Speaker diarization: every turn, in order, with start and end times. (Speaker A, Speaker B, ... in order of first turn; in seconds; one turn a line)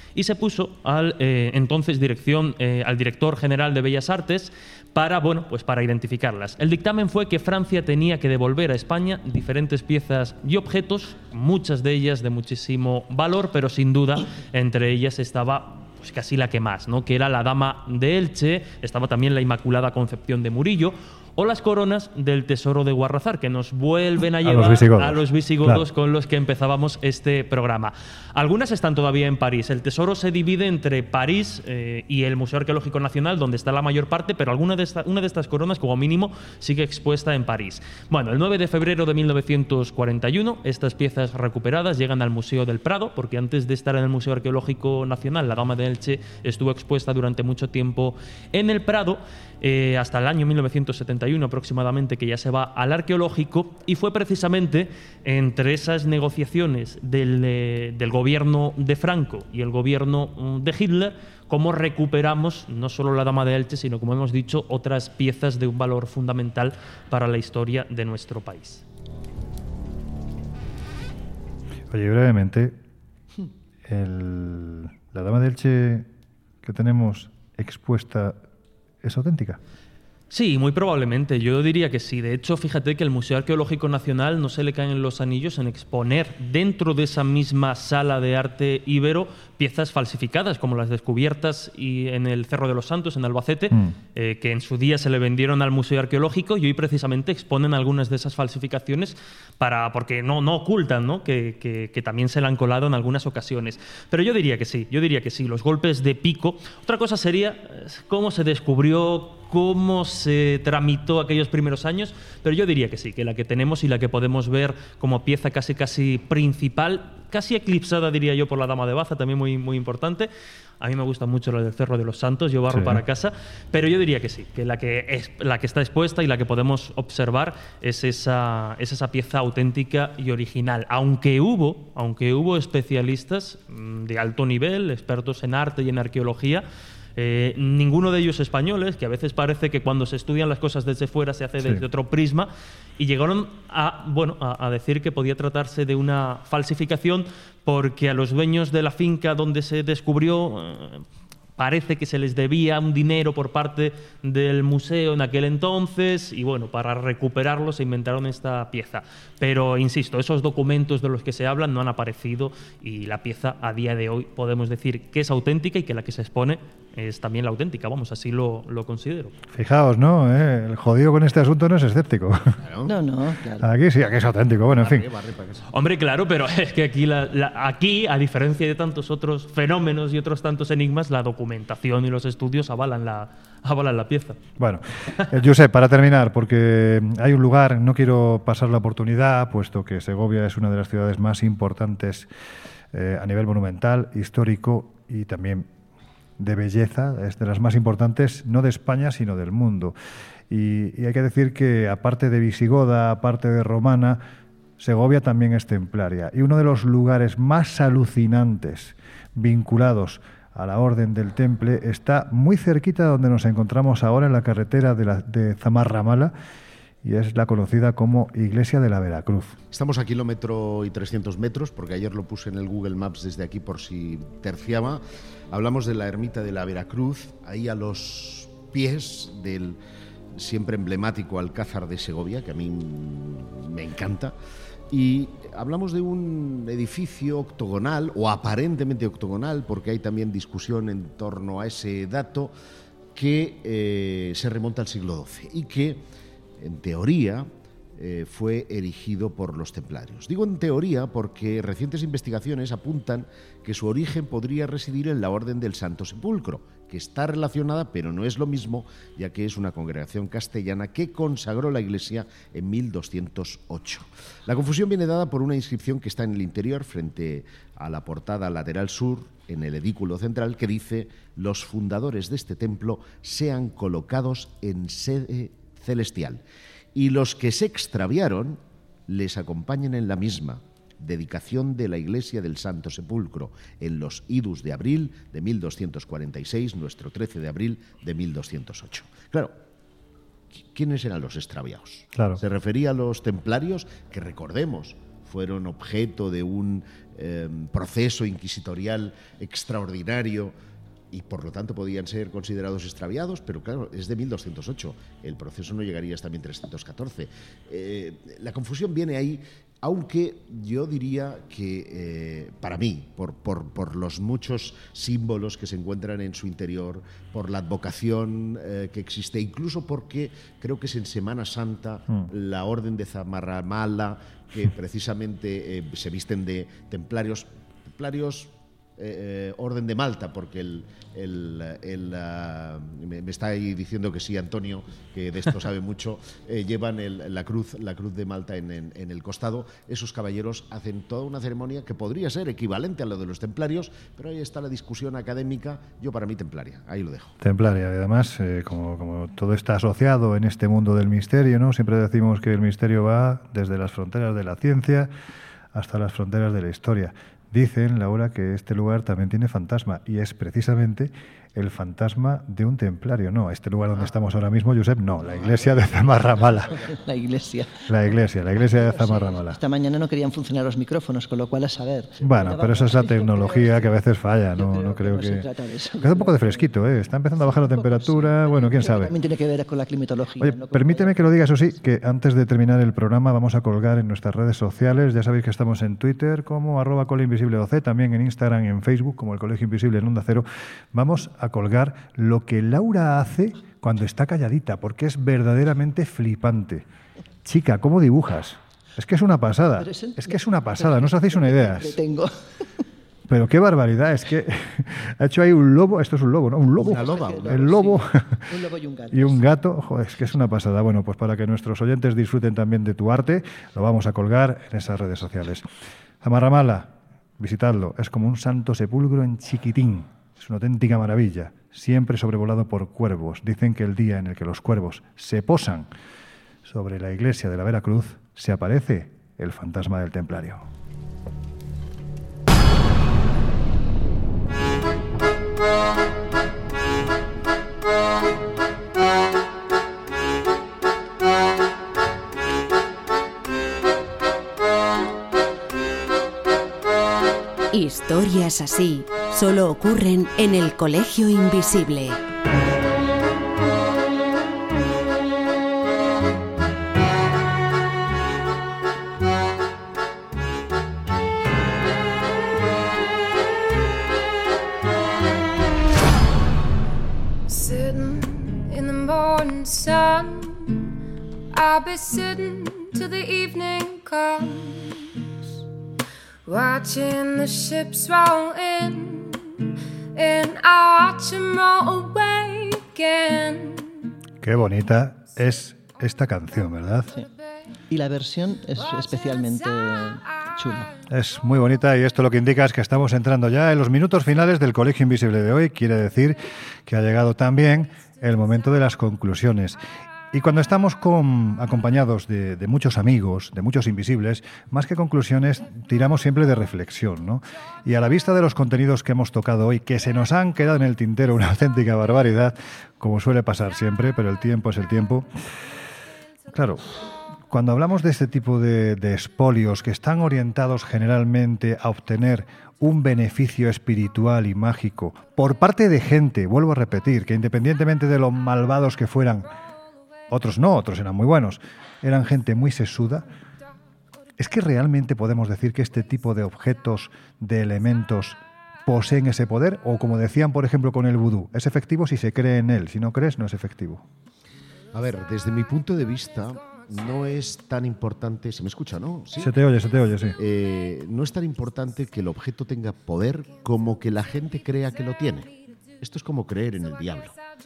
Speaker A: 0.1-68.8
Speaker B: 24.4-25.9
Speaker B: 71.9-72.8
Speaker B: 73.8-76.1
Speaker B: 76.6-78.4
Speaker B: 79.0-79.6
Speaker A: 80.3-120.3
Speaker B: 93.7-94.0
Speaker A: 120.8-136.6
Speaker B: 122.7-123.0
Speaker A: 137.2-151.0
Speaker A: 151.6-169.3
Speaker B: 169.5-172.6
Speaker C: 172.6-172.9
Speaker D: 172.8-173.7
Speaker B: 173.6-175.1
Speaker C: 174.7-175.7
Speaker A: 175.7-184.4
Speaker B: 184.6-192.3
Speaker B: 192.9-195.7
Speaker B: 196.4-199.9
Speaker B: 200.5-204.2
Speaker B: 204.8-216.3
Speaker B: 217.0-219.6
Speaker C: 219.7-229.8
Speaker C: 230.3-234.3
Speaker C: 234.9-242.5
Speaker C: 243.1-246.0
Speaker C: 246.6-276.4
Speaker C: 276.9-289.5
Speaker C: 290.6-300.5
Speaker B: 292.1-292.4
Speaker C: 301.1-347.4
Speaker B: 347.4-355.1
Speaker B: 355.7-366.8
Speaker C: 365.3-366.9
Speaker D: 366.9-367.9
Speaker B: 367.9-369.6
Speaker D: 368.6-373.9
Speaker B: 372.2-375.5
Speaker D: 374.5-376.7
Speaker B: 376.0-379.1
Speaker D: 377.4-381.1
Speaker B: 380.4-396.8
Speaker B: 397.4-401.9
Speaker D: 399.8-402.3
Speaker B: 403.3-408.4
Speaker C: 406.8-407.7
Speaker D: 406.8-409.4
Speaker B: 409.1-415.6
Speaker B: 416.2-425.9
Speaker B: 426.6-430.6
Speaker E: 447.7-452.2
Speaker F: 467.5-470.9
Speaker F: 471.5-475.3
Speaker F: 476.4-484.1
Speaker B: 484.4-487.1
Speaker D: 487.9-490.9
Speaker B: 491.1-499.8
Speaker B: 500.3-515.3
Speaker B: 516.5-516.9
Speaker B: 517.5-529.5
Speaker B: 530.3-533.3
Speaker B: 534.4-544.0
Speaker C: 544.9-549.6
Speaker B: 549.4-550.4
Speaker C: 550.4-557.3